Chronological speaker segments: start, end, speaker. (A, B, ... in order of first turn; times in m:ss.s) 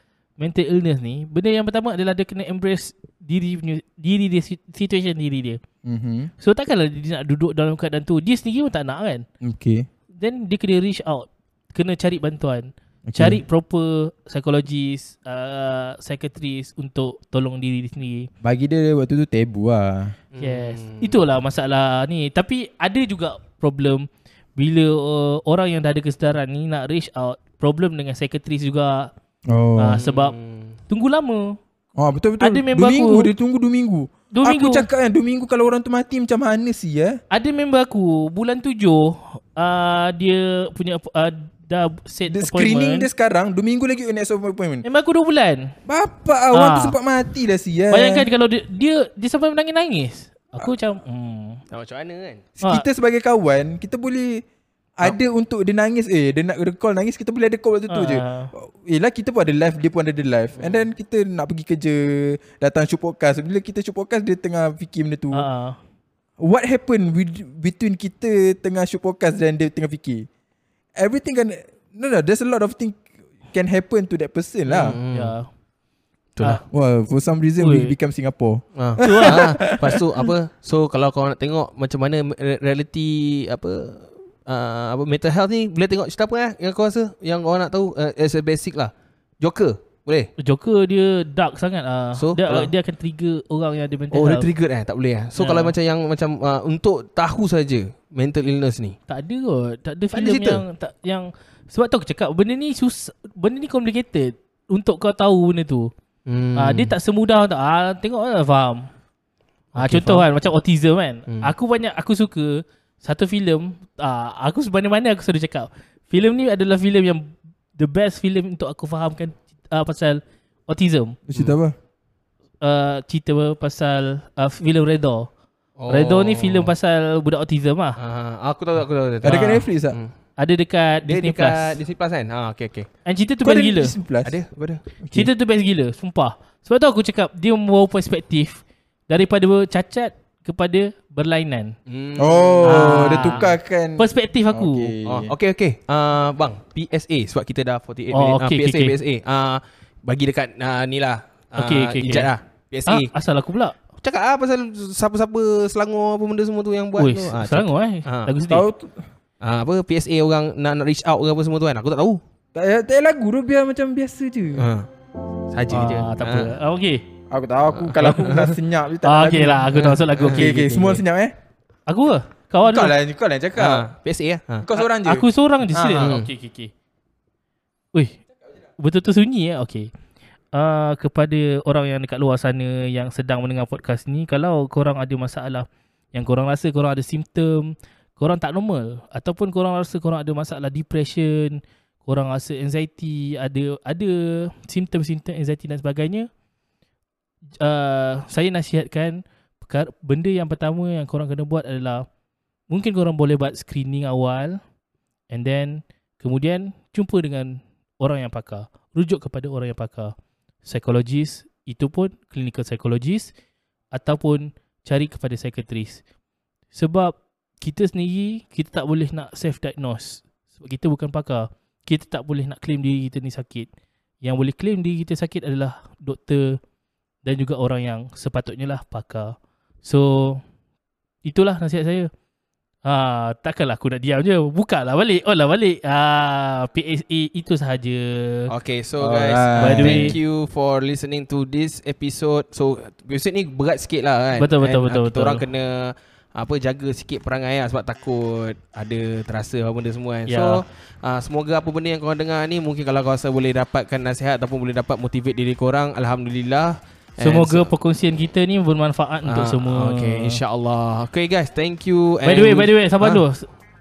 0:00.4-0:05.6 A
0:05.8-0:06.3 B
0:06.4-0:09.2 A
0:09.4-0:09.9 B
0:10.2-0:18.3 A
0:13.1-0:13.4 B
0:18.4-0:20.2 B
0:20.3-0:21.2 C
0:20.4-0:24.1 A
0:24.6-0:29.1 A
0:29.5-0:30.0 B
0:29.8-0:30.4 A
0:30.0-0:30.8 C
0:30.9-0:31.6 A
0:32.0-0:37.2 B
0:32.4-0:33.3 A
0:34.3-0:34.9 A
0:37.3-0:43.1 A
0:42.3-0:44.8 B
0:44.8-0:45.7 A
0:45.9-0:48.3 B
0:46.5-0:47.0 A
0:47.9-0:51.6 A
0:51.7-0:52.4 C
0:52.6-0:54.4 B
0:55.0-1:05.5 B
0:57.9-0:58.5 A
1:00.6-1:00.9 C
1:05.3-1:05.8 A
1:06.4-1:10.3 B
1:11.0-1:15.0 B
1:14.7-1:15.3 C
1:14.8-1:15.5 A
1:16.4-1:16.6 C
1:16.7-1:20.3 B
1:17.6-1:17.9 A
1:18.8-1:30.3 C
1:19.0-1:19.8 A
1:30.4-1:34.5 A
1:32.2-1:32.7 C
1:34.1-1:39.0 C
1:35.4-1:35.8 A
1:39.1-1:45.9 A
1:40.1-1:40.6 C
1:46.3-1:46.9 C
1:46.6-1:48.9 A
1:49.8-1:50.3 C
1:49.8-2:01.2 A
1:51.3-1:51.5 C
2:01.3-2:01.8 B
2:02.6-2:05.3 A
2:05.8-2:06.7 C
2:05.9-2:08.0 A
2:08.0-2:10.1 C
2:09.2-2:10.0 B
2:09.3-2:09.6 A
2:10.4-2:11.8 A
2:11.1-2:12.9 C
2:13.1-2:14.0 A
2:13.4-2:14.4 B
2:14.2-2:14.8 C
2:15.0-2:15.3 B
2:15.1-2:21.8 A
2:21.9-2:23.5 C
2:22.2-2:25.3 B
2:22.6-2:23.4 A
2:24.0-2:24.9 A
2:25.1-2:33.1 C
2:28.1-2:29.0 A
2:31.6-2:32.3 A
2:32.9-2:33.8 A
2:34.0-2:38.3 C
2:37.0-2:38.7 A
2:38.5-2:39.1 B
2:39.4-2:42.2 C
2:42.5-2:44.7 B
2:44.6-2:44.9 C
2:45.5-2:46.6 C
2:45.7-2:47.0 A
2:47.3-2:51.3 B
2:47.7-2:48.6 C
2:49.0-2:51.0 A
2:49.8-2:50.5 C
2:51.9-2:52.9 A
2:52.6-2:53.9 B
2:53.6-2:54.7 C
2:54.6-2:56.1 B
2:54.8-2:56.7 A
2:56.0-2:56.3 C
2:58.8-2:59.9 A
3:00.5-3:16.3 A
3:17.6-3:22.1 A
3:22.7-3:24.6 A
3:25.3-3:30.1 A
3:30.6-3:33.3 A
3:33.9-3:36.0 A
3:36.7-3:43.7 A
3:44.2-3:46.6 A
3:47.2-3:50.4 A
3:51.2-3:52.1 A
3:52.8-3:58.5 A
3:58.5-4:17.7 C
3:59.0-4:00.2 B
3:59.6-4:00.2 A
4:04.4-4:05.4 A
4:10.3-4:10.6 A
4:17.2-4:20.4 A
4:19.3-4:23.2 C
4:22.2-4:23.5 A